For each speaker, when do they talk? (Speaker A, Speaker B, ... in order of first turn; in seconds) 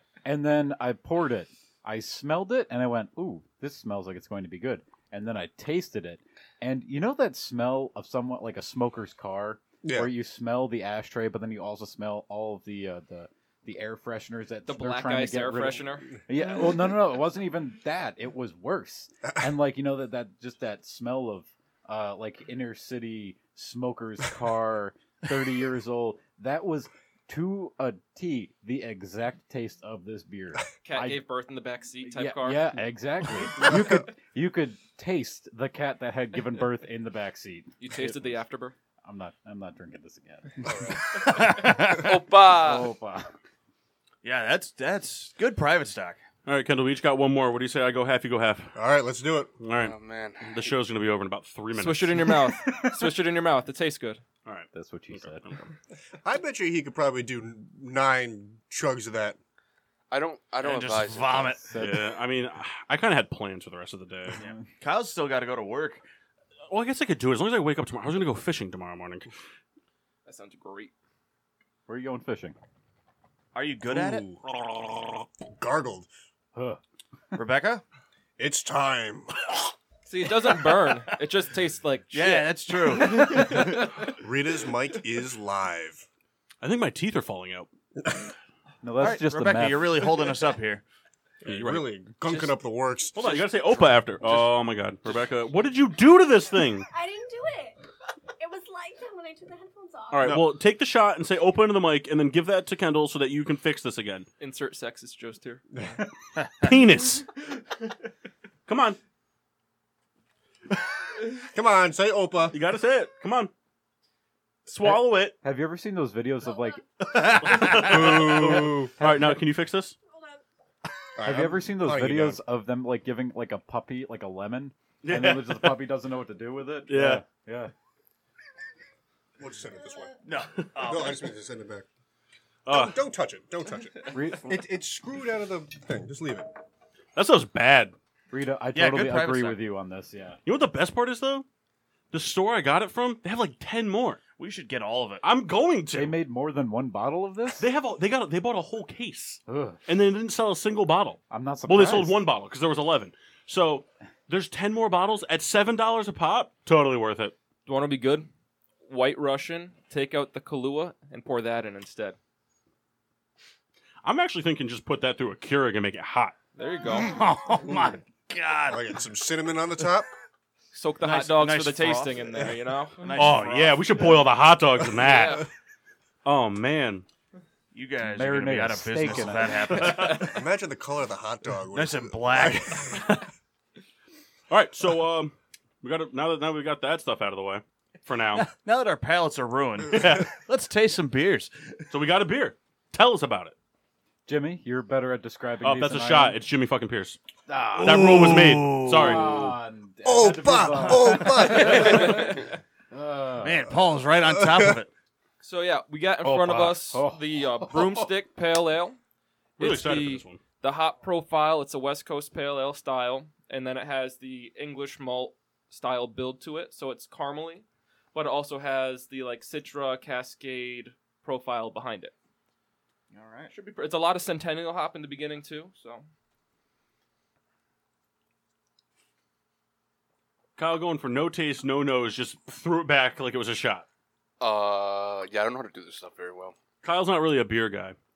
Speaker A: 0.2-31.2, 32.0-38.4, 39.0-40.9, 42.5-43.3, 52.4-53.1, 54.7-55.4, 61.6-62.1, 71.9-72.5, 76.5-76.8, 88.8-90.3, 114.8-116.8, 119.0-119.4, 121.2-127.7, 134.1-134.5, 138.3-140.4, 145.9-147.7, 149.5-149.8, 151.3-152.2, 178.0-179.7, 194.2-196.4, 197.5-203.7, 206.2-208.1
Speaker B: 9.8-10.1, 48.8-49.6, 56.2-59.4, 73.9-74.4, 75.4-76.1, 78.4-79.5, 84.0-86.0, 91.4-93.4, 111.3-112.6, 117.6-118.9, 121.2-122.4, 129.4-130.2, 130.8-131.8, 132.7-136.5, 168.7-170.1, 179.8-183.2, 200.0-202.3, 204.2-204.8
Speaker C: 14.7-16.1, 30.8-32.7, 37.8-38.7, 51.8-54.2, 70.2-70.9, 80.1-83.8, 104.4-105.9, 157.7-158.3, 158.8-162.2, 166.6-167.2, 170.7-173.1, 175.0-175.5, 201.5-202.4, 205.4-209.0, 209.6-222.1, 223.5-226.1
Speaker D: 41.2-42.2, 44.2-46.2, 60.6-61.7, 64.3-66.0, 73.5-74.3, 77.3-77.8, 82.1-83.9, 89.0-90.8, 106.4-106.7, 117.0-118.2, 130.2-131.3, 138.7-139.6, 144.4-145.2, 166.9-168.8, 171.0-174.1, 177.7-180.4, 181.7-183.0, 188.3-191.9, 197.7-199.4, 200.7-201.7, 203.4-204.9, 223.1-223.5
Speaker E: 41.5-42.9, 49.7-50.7, 60.1-61.5, 234.4-236.6
Speaker F: 46.5-48.8, 49.6-52.4, 54.4-55.6, 61.8-64.4, 66.7-69.3, 74.6-75.2, 86.6-87.7, 91.4-91.9, 93.1-96.9, 100.1-104.3, 106.6-107.3, 108.7-109.0, 112.5-113.5, 114.7-115.3, 117.4-120.0, 125.0-125.8, 126.9-127.2, 132.7-133.0, 137.2-137.9, 140.4-141.4, 142.1-144.2, 145.2-146.2, 147.6-157.3, 164.0-166.4, 173.1-175.4, 176.2-177.1, 179.7-180.3, 184.5-188.5, 189.9-190.3, 191.9-193.5, 195.6-197.2, 197.8-199.5, 209.6-210.4, 230.6-233.9, 236.8-238.0
Speaker G: 96.9-97.8, 98.4-100.4, 116.4-116.8, 120.1-120.4, 129.7-130.3